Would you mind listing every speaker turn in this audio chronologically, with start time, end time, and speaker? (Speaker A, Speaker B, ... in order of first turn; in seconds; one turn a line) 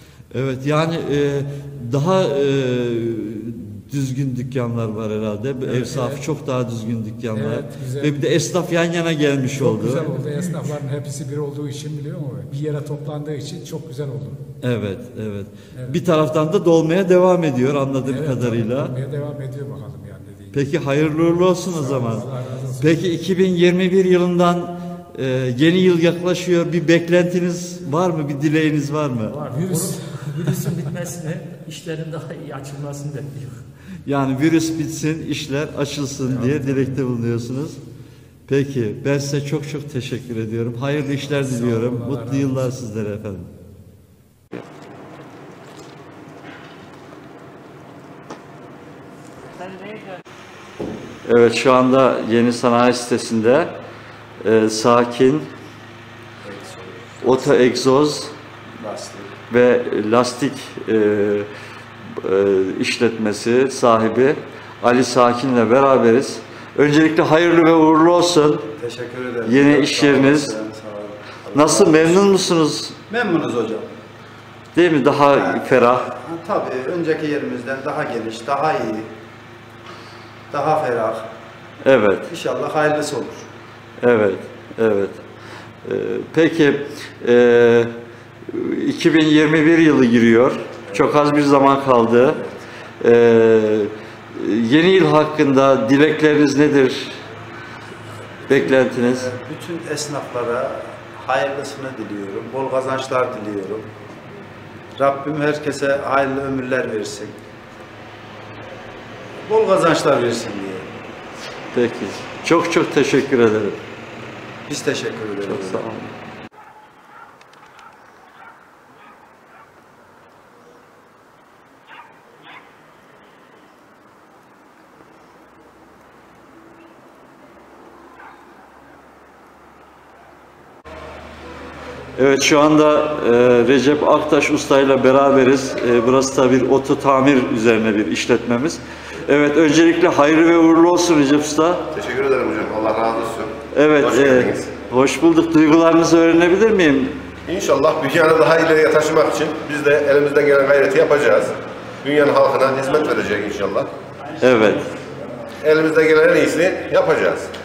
Speaker A: 0.3-10.4
Speaker B: 5.6-6.2
Speaker B: 7.3-8.2
Speaker B: 9.5-14.4
Speaker A: 14.6-18.9
Speaker B: 15.7-16.0
Speaker B: 18.1-23.1
Speaker A: 20.5-22.3
Speaker A: 22.8-29.5
Speaker C: 29.3-33.7
Speaker B: 29.5-31.0
Speaker A: 34.0-37.8
Speaker B: 36.3-36.6
Speaker A: 38.5-43.5
Speaker B: 41.4-42.8
Speaker A: 51.2-53.7
Speaker A: 54.4-55.5
Speaker D: 56.5-57.0
Speaker A: 57.2-58.3
Speaker D: 58.8-59.3
Speaker A: 59.5-61.5
Speaker A: 62.2-68.7
Speaker D: 68.8-72.2
Speaker A: 69.4-70.6
Speaker A: 71.5-73.0
Speaker D: 73.1-73.9
Speaker A: 74.7-76.1
Speaker D: 76.3-79.1
Speaker D: 80.5-81.2
Speaker A: 81.8-82.3
Speaker D: 82.3-83.4
Speaker A: 84.0-85.2
Speaker A: 85.8-87.9
Speaker A: 88.5-92.5
Speaker A: 93.0-97.2
Speaker A: 98.5-99.3
Speaker D: 99.2-103.9
Speaker D: 105.0-107.3
Speaker D: 109.5-110.8
Speaker A: 111.7-113.8
Speaker D: 114.7-115.8
Speaker A: 115.4-116.1
Speaker A: 132.2-141.9
Speaker E: 141.9-144.7
Speaker A: 143.7-147.2
Speaker E: 147.5-153.9
Speaker A: 154.4-154.9
Speaker E: 155.6-157.5